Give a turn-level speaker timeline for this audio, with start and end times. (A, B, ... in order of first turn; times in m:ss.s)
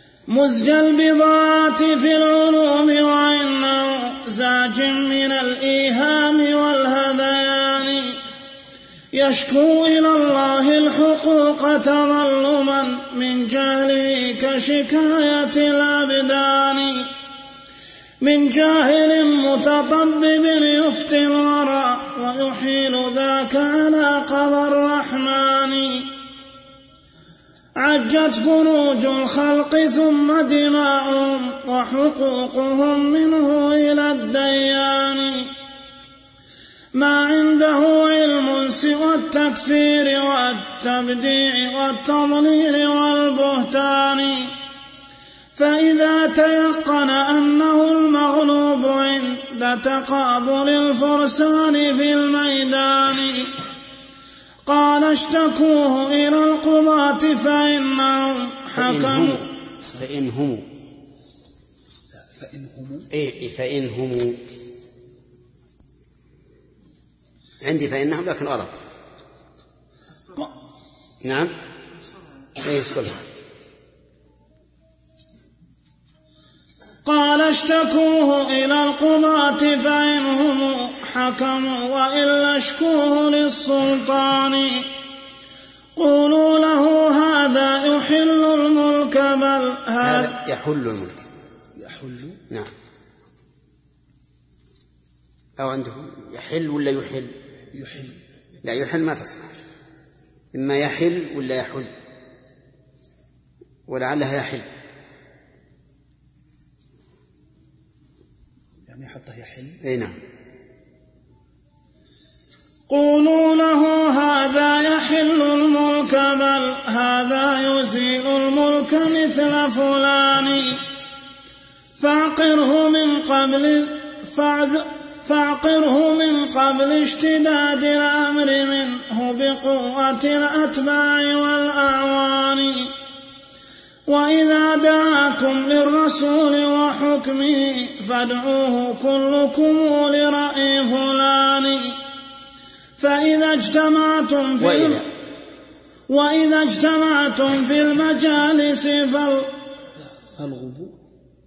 0:00.3-0:08.2 A
0:09.1-0:17.1 A
0:18.2-0:26.1 A
0:27.8-0:35.5 A
0:36.9-0:44.5 A
0:45.6-0:53.5 A
0:54.7-0:59.4 A
0:58.8-1:00.6 B
1:02.3-1:03.1 C
1:03.1-1:04.4 B
1:07.6-1:08.8 B
1:11.2-1:11.5 B
1:12.6-1:13.2 B
1:17.0-1:24.9 A
1:26.0-1:30.3 A
1:30.0-1:31.2 B
1:31.8-1:32.4 C
1:35.6-1:37.4 B
1:37.7-1:38.2 C
1:38.6-1:39.5 B
1:40.5-1:41.9 B
1:43.9-1:44.6 B
1:48.9-1:49.8 C
1:49.8-1:50.2 B
1:52.9-2:00.8 A
2:02.0-2:12.9 A
2:14.1-2:22.0 A
2:23.0-2:25.0 A
2:24.6-2:25.0 B
2:26.1-2:29.5 A
2:30.3-2:31.0 C